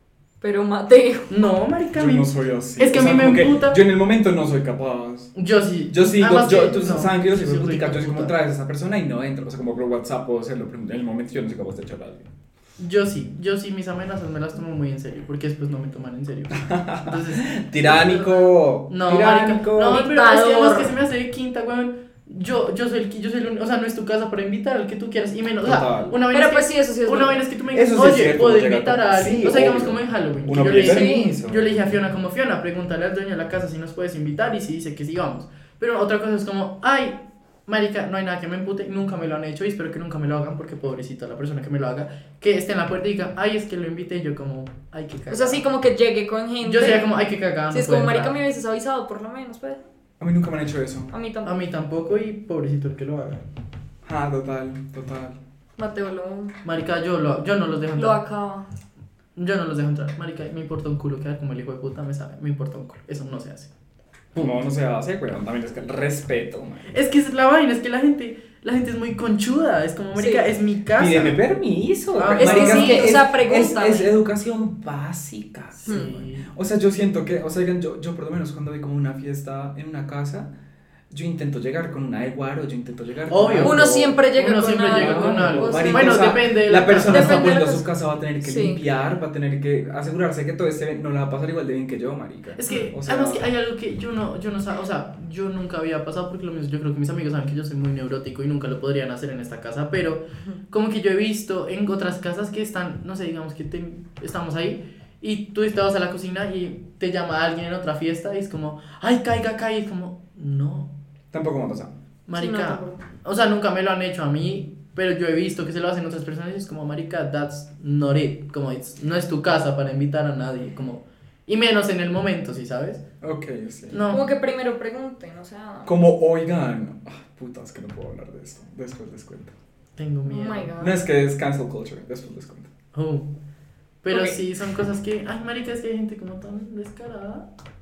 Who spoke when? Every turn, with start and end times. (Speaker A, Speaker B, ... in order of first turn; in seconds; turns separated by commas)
Speaker A: 0.4-1.4, Speaker B: 1.3-3.8, Speaker C: 1.9-5.3, Speaker B: 5.4-8.3, Speaker C: 5.9-12.3, Speaker B: 12.8-45.6, Speaker C: 16.6-20.1, Speaker A: 19.9-20.9, Speaker C: 25.6-26.2, Speaker A: 26.3-27.4, Speaker C: 27.7-31.9, Speaker A: 30.8-31.3, Speaker A: 45.3-47.1, Speaker B: 46.6-48.3, Speaker A: 47.7-49.9, Speaker C: 50.2-51.1, Speaker A: 51.1-51.5, Speaker B: 51.5-53.4, Speaker C: 54.0-55.4, Speaker A: 55.8-56.5, Speaker B: 56.6-58.2, Speaker A: 58.0-58.7, Speaker B: 59.4-63.7, Speaker C: 64.4-66.9, Speaker B: 66.9-71.4, Speaker A: 70.2-70.5, Speaker C: 71.0-80.5, Speaker B: 72.2-73.2, Speaker A: 72.4-74.1, Speaker B: 75.8-76.5, Speaker C: 81.1-84.1, Speaker B: 83.3-87.6, Speaker A: 83.6-86.4, Speaker C: 84.9-93.5, Speaker A: 87.1-87.9, Speaker A: 88.4-88.8, Speaker B: 92.6-110.9, Speaker C: 111.3-111.9, Speaker B: 112.3-123.0, Speaker A: 112.4-113.0, Speaker C: 123.2-124.0, Speaker B: 123.9-124.3, Speaker A: 124.1-125.9, Speaker C: 125.9-129.5, Speaker B: 130.0-130.7, Speaker A: 130.3-131.0, Speaker C: 130.8-132.7, Speaker B: 132.9-133.3, Speaker B: 134.0-137.5, Speaker A: 134.1-134.4